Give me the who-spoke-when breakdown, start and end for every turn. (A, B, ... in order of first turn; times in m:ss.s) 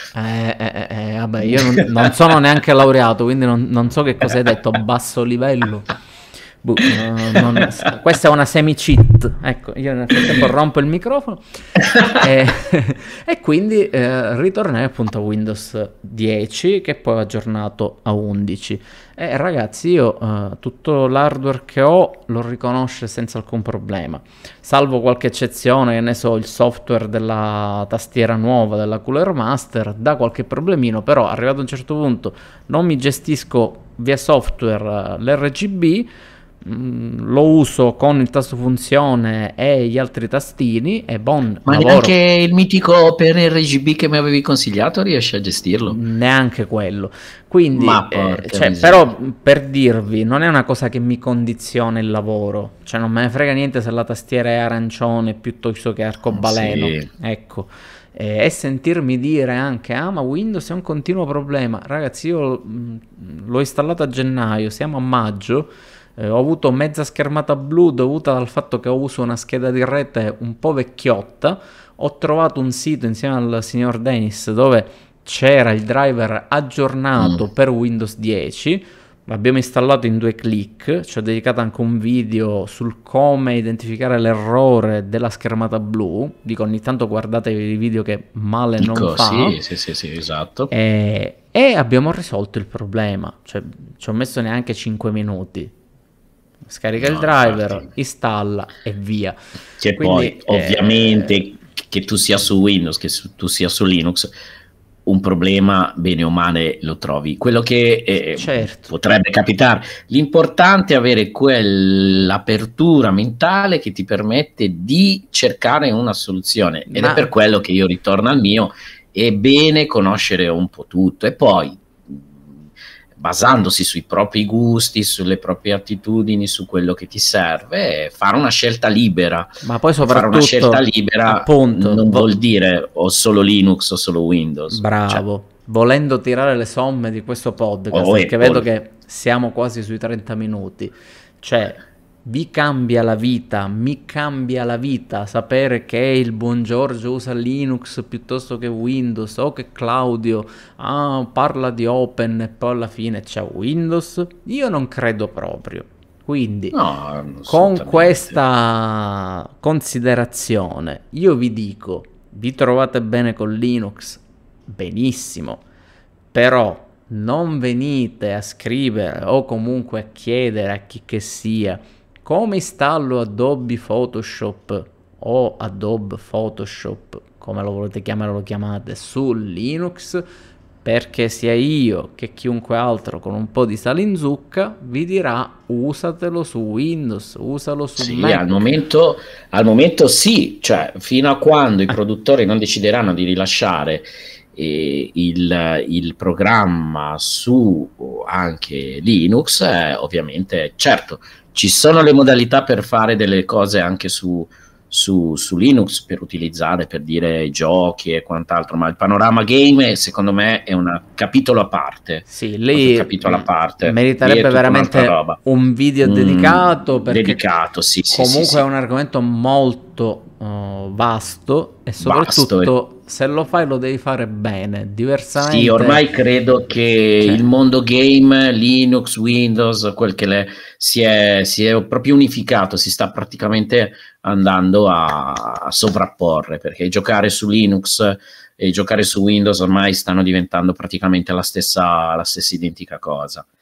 0:00.2-0:05.9 A
0:01.4-0:02.1 B
0:06.6-0:11.4 A
0:12.0-0:36.1 A
0:36.6-0:42.2 A
0:41.7-0:46.0 B
0:45.9-1:29.6 A
0:47.7-0:49.1 B
0:56.3-0:57.1 B
1:28.8-1:30.7 B
1:30.7-1:35.7 A
1:36.7-1:39.4 A
1:37.0-1:37.9 B
1:39.8-1:44.3 B
1:40.0-1:41.4 A
1:45.1-2:02.6 B
1:48.3-1:48.9 A
1:56.9-1:57.3 A
2:03.2-2:09.5 B
2:09.6-2:12.3 A
2:10.0-2:15.2 B
2:14.7-2:36.8 A
2:17.9-2:18.7 B
2:36.7-2:38.4 B
2:37.5-2:45.6 A
2:46.3-3:00.2 A
3:00.8-3:08.7 A
3:08.0-3:35.4 B
3:32.3-3:37.4 A
3:36.0-3:38.6 B
3:38.1-3:46.0 A
3:42.0-3:42.7 B
3:45.4-4:03.5 B